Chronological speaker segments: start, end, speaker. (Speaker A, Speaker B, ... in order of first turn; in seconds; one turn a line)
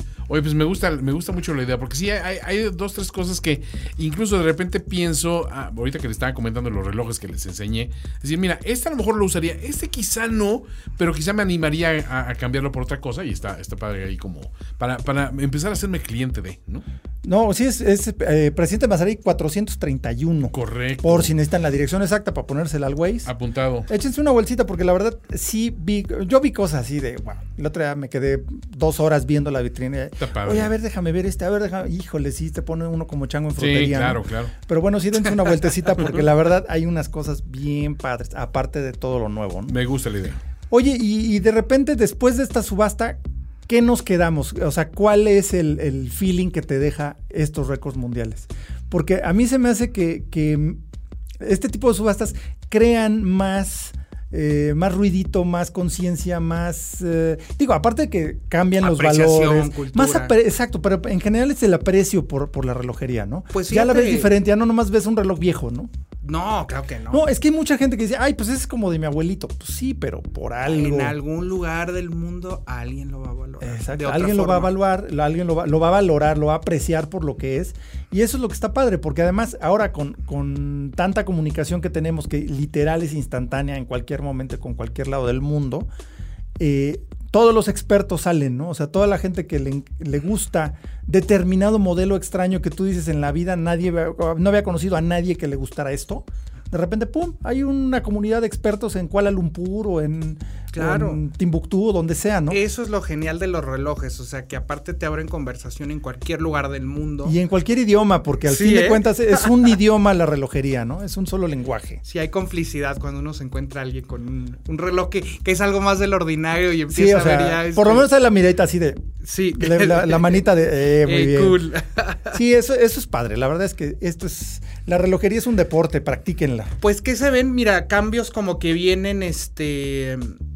Speaker A: 0.3-16.8
Speaker B: 17.2-23.3
Speaker A: 20.5-21.3
Speaker A: 23.2-23.9
Speaker B: 23.9-39.8
Speaker A: 30.2-30.7
Speaker A: 33.6-34.5
Speaker A: 39.7-40.4
Speaker B: 40.7-50.8
Speaker B: 51.4-65.9
Speaker C: 58.8-60.3
Speaker C: 63.5-64.3
Speaker C: 66.2-67.3
Speaker B: 67.1-71.1
Speaker C: 70.7-74.7
Speaker B: 73.6-85.9
Speaker B: 86.6-102.6
Speaker C: 100.7-101.2
Speaker C: 102.5-107.4
Speaker B: 107.2-112.0
Speaker C: 108.4-109.6
Speaker C: 112.0-118.1
Speaker B: 116.9-121.6
Speaker C: 119.2-122.4
Speaker B: 122.3-126.7
Speaker C: 126.8-130.4